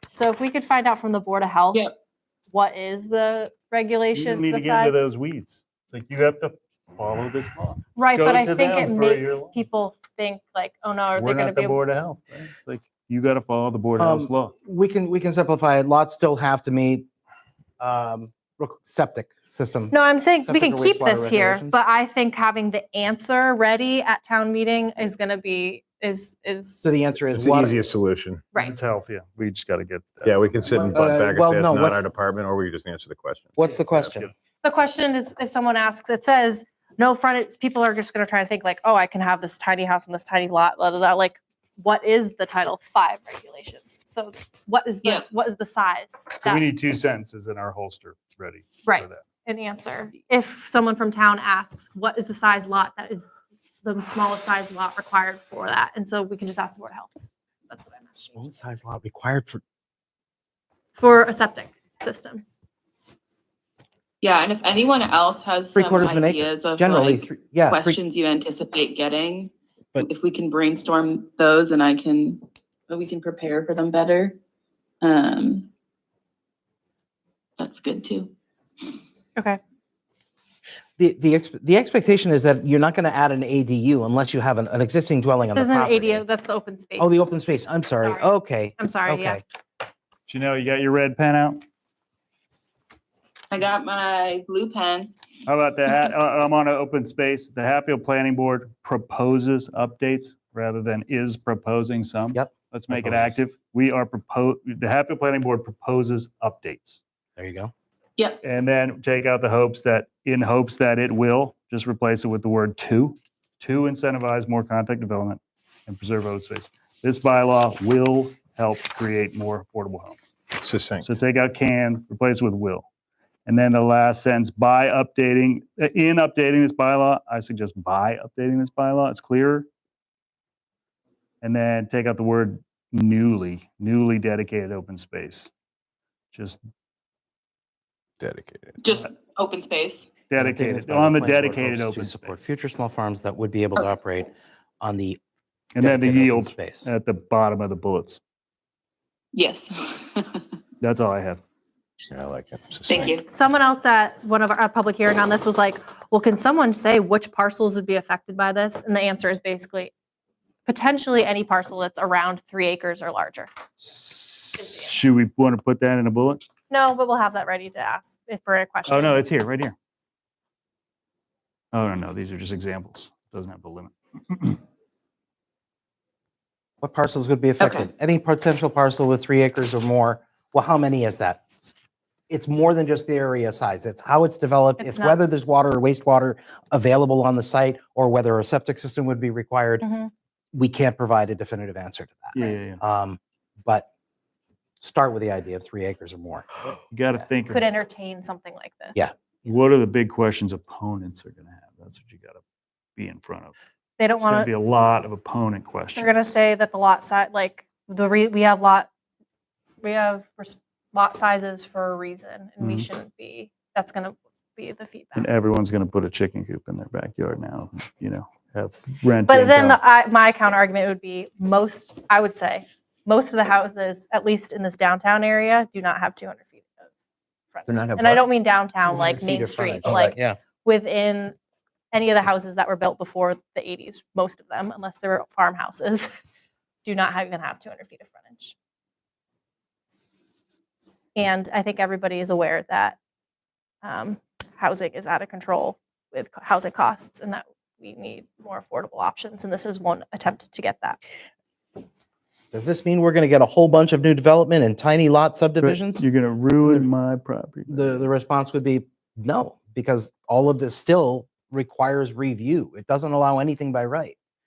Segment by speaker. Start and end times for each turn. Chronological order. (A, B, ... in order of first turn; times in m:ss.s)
0:00.2-0:01.9 A
0:02.5-0:05.0 A
0:04.2-0:09.6 B
0:08.0-0:11.8 A
0:11.2-0:14.5 B
0:14.0-0:17.1 C
0:17.8-0:21.8 C
0:19.9-0:27.1 A
0:26.8-0:27.8 C
0:27.3-0:28.4 D
0:28.6-0:31.0 B
0:30.2-0:34.2 D
0:30.9-0:32.0 C
0:33.6-0:34.3 C
0:34.6-0:46.7 A
0:45.0-0:45.3 E
0:46.4-0:49.2 B
0:48.8-0:57.1 A
0:57.7-0:58.3 A
0:58.4-0:59.6 C
1:01.0-1:02.4 A
1:04.2-1:14.4 E
1:05.7-1:08.0 C
1:15.0-1:15.7 E
1:17.6-1:18.3 E
1:21.0-1:26.2 C
1:25.4-1:27.3 A
1:27.0-1:29.4 C
1:28.0-1:29.4 A
1:30.3-1:31.6 B
1:33.5-1:35.1 E
1:35.5-1:47.0 B
1:42.3-1:43.4 C
1:47.4-1:47.7 C
1:48.2-1:48.4 E
1:48.4-2:00.2 B
2:00.6-2:01.1 D
2:01.0-2:02.9 B
2:03.5-2:09.7 B
2:11.4-2:15.5 B
2:16.3-2:16.6 B
2:18.2-2:18.8 D
2:18.8-2:20.2 E
2:20.3-2:22.4 B
2:20.4-2:25.2 C
2:25.7-2:28.2 B
2:25.8-2:26.9 C
2:29.3-2:30.5 E
2:30.8-2:31.4 B
2:32.1-2:33.1 D
2:32.9-2:33.3 E
2:33.2-2:39.9 A
2:40.7-2:43.5 A
2:43.8-2:46.4 B
2:44.6-2:44.9 A
2:46.7-2:49.2 A
2:48.9-2:49.8 B
2:51.7-2:54.6 B
2:56.8-3:01.4 C
2:57.6-2:57.9 E
3:02.3-3:09.8 C
3:04.8-3:05.2 A
3:09.8-3:10.1 A
3:10.5-3:13.9 C
3:12.3-3:12.8 B
3:14.8-3:16.5 C
3:16.9-3:17.7 B
3:17.5-3:19.0 A
3:19.4-3:22.4 B
3:23.0-3:23.6 B
3:24.0-3:24.5 A
3:24.2-3:26.1 B
3:26.0-3:28.9 A
3:29.8-3:35.3 A
3:32.6-3:32.9 B
3:35.2-3:39.8 B
3:39.3-3:46.9 A
3:47.5-3:51.4 A
3:47.7-3:48.3 C
3:48.9-3:50.4 C
3:51.9-3:56.1 A
3:56.8-3:58.5 A
4:01.2-4:03.0 A
4:03.8-4:11.0 A
4:12.5-4:16.0 C
4:15.6-4:18.1 B
4:16.6-4:16.9 C
4:17.7-4:24.2 C